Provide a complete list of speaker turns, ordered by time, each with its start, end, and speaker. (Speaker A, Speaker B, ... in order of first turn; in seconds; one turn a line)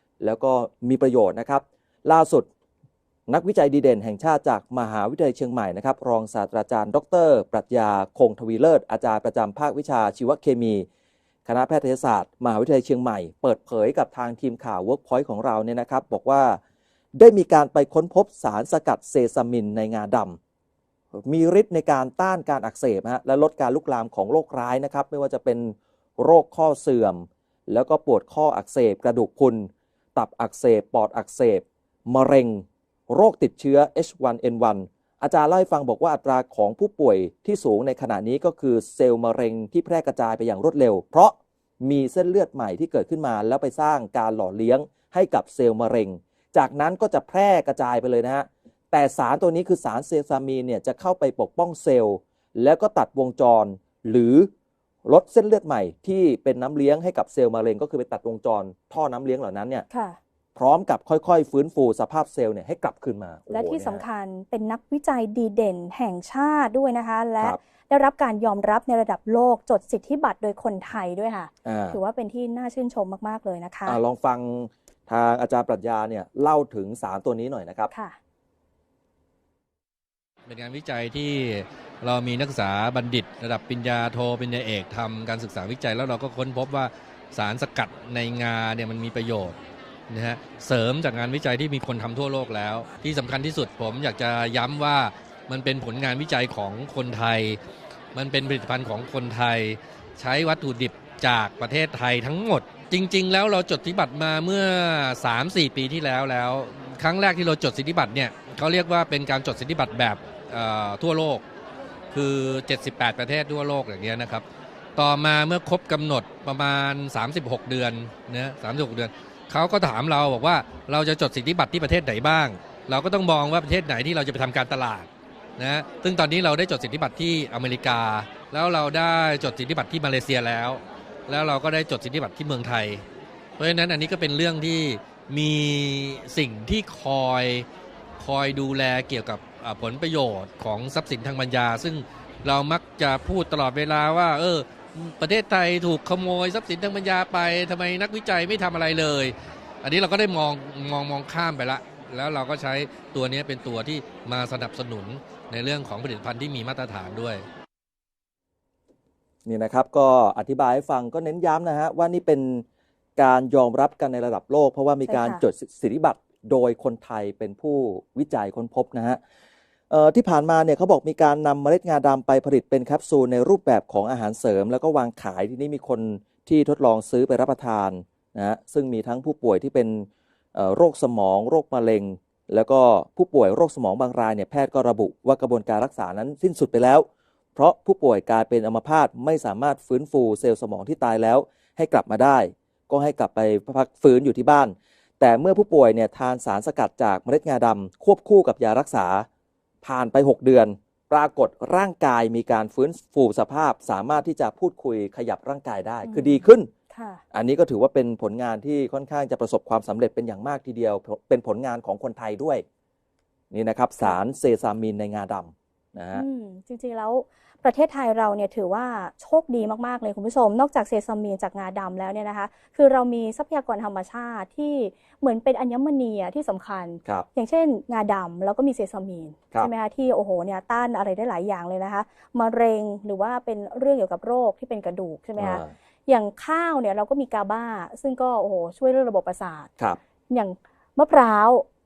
Speaker A: 0.2-2.5
Speaker A: 3.3-10.8
Speaker A: 11.4-16.6
Speaker A: 17.2-20.4
Speaker A: 21.2-54.5
Speaker A: 55.0-59.9
Speaker B: 59.9-60.2
Speaker A: 60.5-64.0
Speaker B: 63.5-74.0
Speaker A: 71.6-72.0
Speaker A: 73.8-77.9
Speaker B: 77.9-78.2
Speaker C: 80.5-89.6
Speaker C: 90.1-97.6
Speaker C: 98.1-111.4
Speaker C: 112.1-114.4
Speaker C: 115.0-133.0
Speaker C: 133.6-137.7
Speaker C: 138.2-157.4
Speaker A: 159.4-162.6
Speaker A: 163.2-169.2
Speaker B: 165.1-165.4
Speaker A: 169.9-199.3
Speaker A: 199.8-206.7
Speaker B: 206.0-207.2
Speaker A: 207.3-212.6
Speaker A: 213.5-216.2
Speaker B: 216.1-239.7
Speaker A: 235.4-235.7
Speaker B: 240.3-241.7